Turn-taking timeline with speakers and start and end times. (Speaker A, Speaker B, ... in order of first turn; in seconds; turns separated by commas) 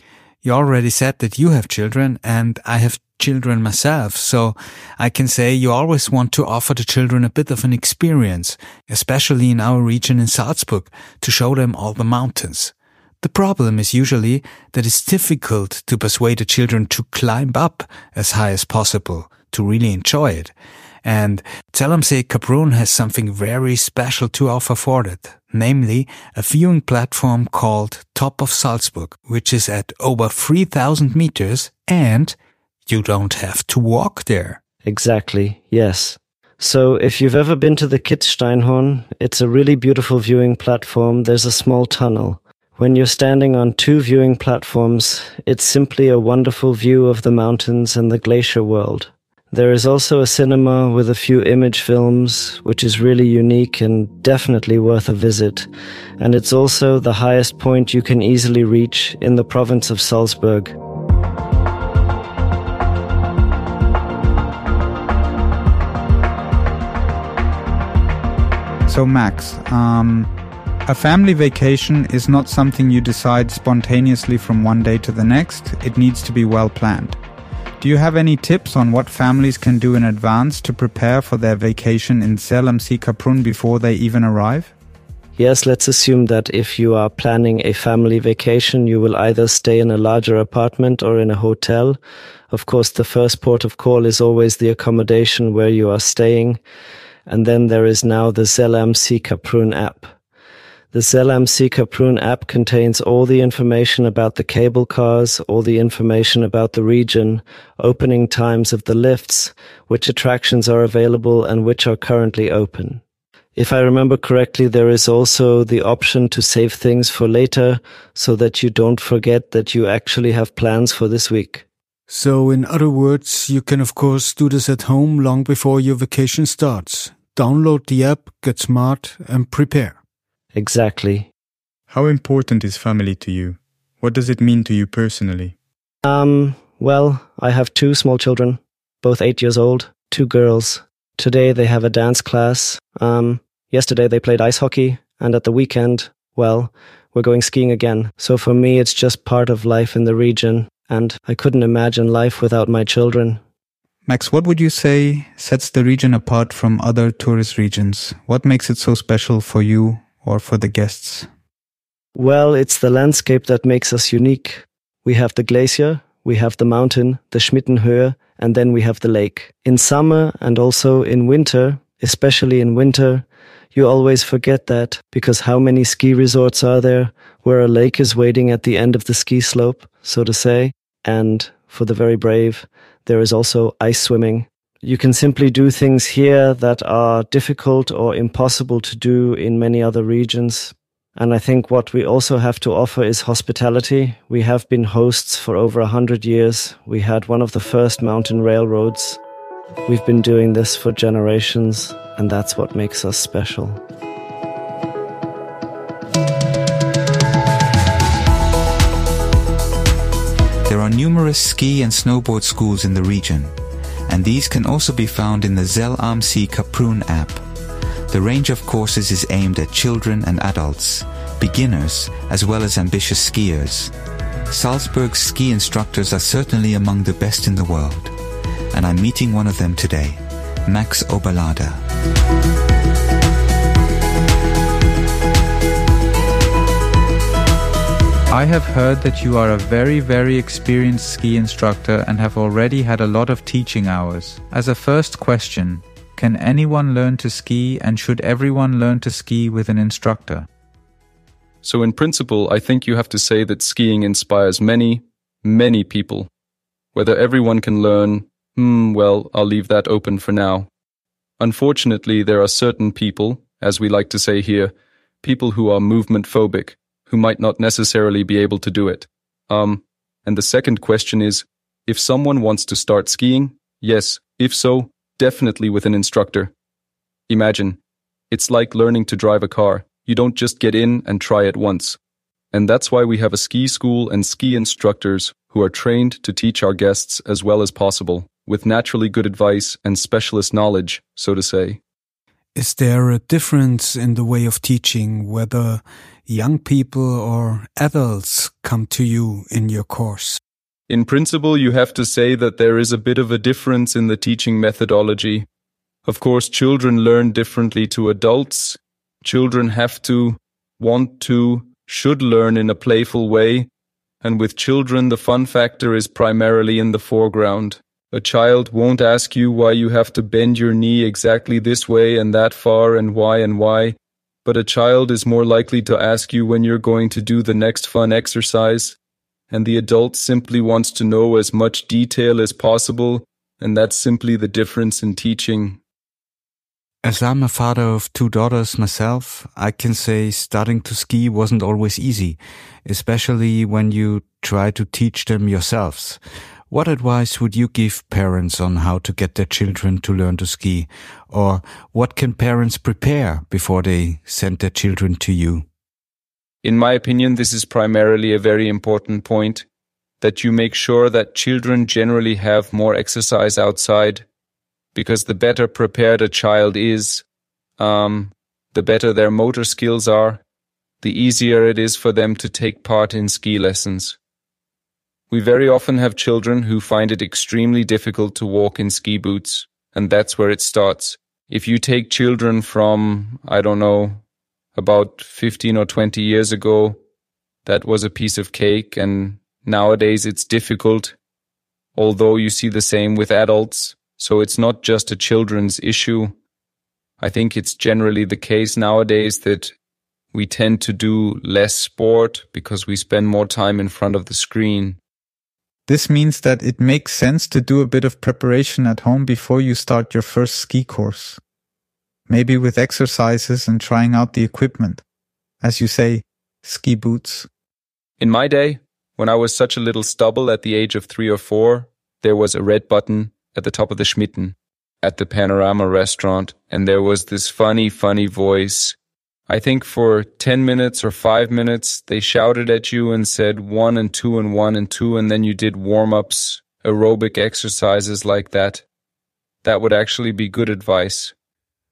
Speaker A: 0.4-34.6, Speaker B: 34.9-60.7, Speaker C: 68.8-70.3, Speaker C: 70.8-77.2, Speaker C: 77.8-84.7, Speaker B: 85.4-92.0, Speaker B: 92.5-96.6, Speaker B: 97.3-100.1, Speaker B: 100.9-113.0, Speaker B: 113.5-121.6, Speaker D: 122.1-130.0, Speaker B: 130.5-131.3, Speaker C: 131.9-135.5, Speaker B: 136.0-153.4, Speaker C: 154.1-161.3, Speaker B: 162.1-199.2, Speaker B: 199.9-203.8, Speaker E: 210.7-213.5, Speaker E: 214.1-217.4, Speaker E: 218.1-223.9, Speaker E: 224.5-228.2, Speaker E: 228.7-231.8, Speaker C: 238.3-250.5, Speaker F: 251.6-256.3, Speaker F: 256.9-260.7, Speaker F: 261.4-276.5, Speaker F: 277.3-277.8, Speaker F: 278.3-282.0, Speaker F: 282.5-291.8, Speaker D: 292.5-300.4, Speaker F: 300.9-305.4, Speaker F: 306.1-313.7, Speaker F: 314.2-328.9, Speaker F: 329.5-335.8, Speaker A: 337.0-346.2, Speaker A: 346.7-355.6, Speaker F: 356.6-359.6, Speaker F: 360.2-364.2, Speaker F: 364.9-367.2, Speaker F: 367.8-370.4, Speaker F: 371.0-374.1, Speaker F: 375.3-384.2, Speaker F: 384.7-387.0, Speaker F: 387.6-391.1, Speaker F: 391.9-396.3, Speaker F: 397.2-399.7, Speaker F: 400.3-405.0, Speaker C: 405.9-411.4, Speaker C: 412.3-415.0, Speaker C: 415.6-417.5, Speaker F: 418.2-428.9, Speaker F: 429.5-438.8, Speaker F: 439.6-441.3